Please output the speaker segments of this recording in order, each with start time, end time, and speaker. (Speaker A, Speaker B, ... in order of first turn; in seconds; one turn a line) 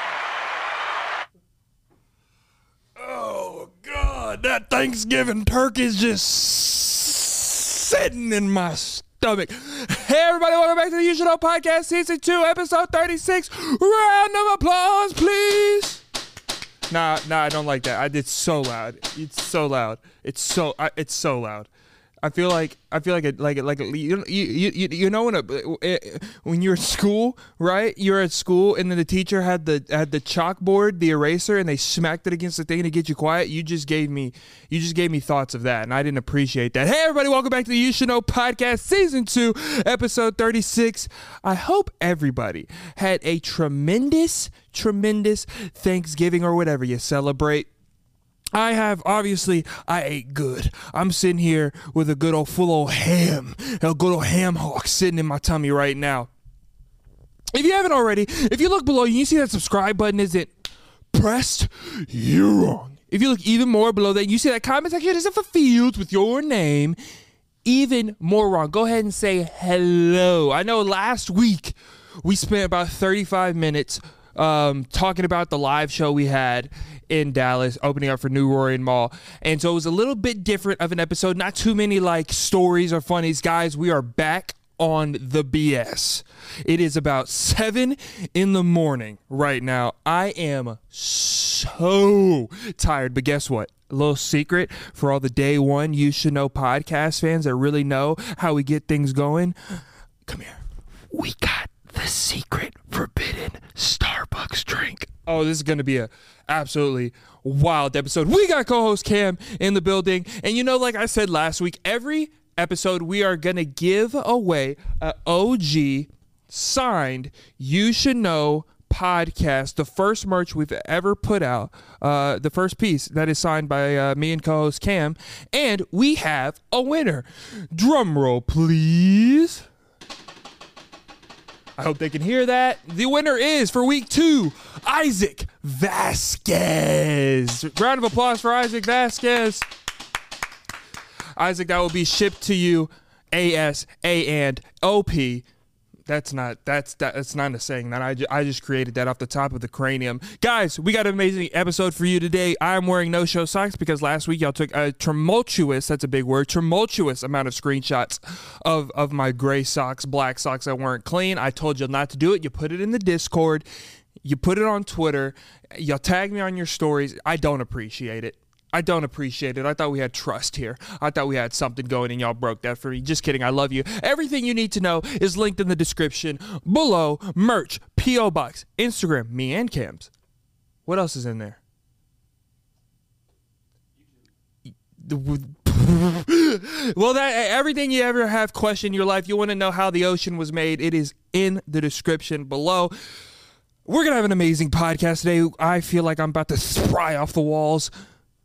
Speaker A: 3.0-16.0
Speaker A: 16.9-21.7
Speaker A: 22.2-47.7
Speaker A: 48.5-56.3
Speaker A: 57.5-60.5
Speaker A: 61.1-67.0
Speaker A: 67.7-100.6
Speaker A: 101.1-129.7
Speaker A: 131.8-139.7
Speaker A: 141.4-145.5
Speaker A: 146.1-163.7
Speaker A: 164.2-180.1
Speaker A: 180.9-181.6
Speaker A: 185.0-192.9
Speaker A: 193.9-197.9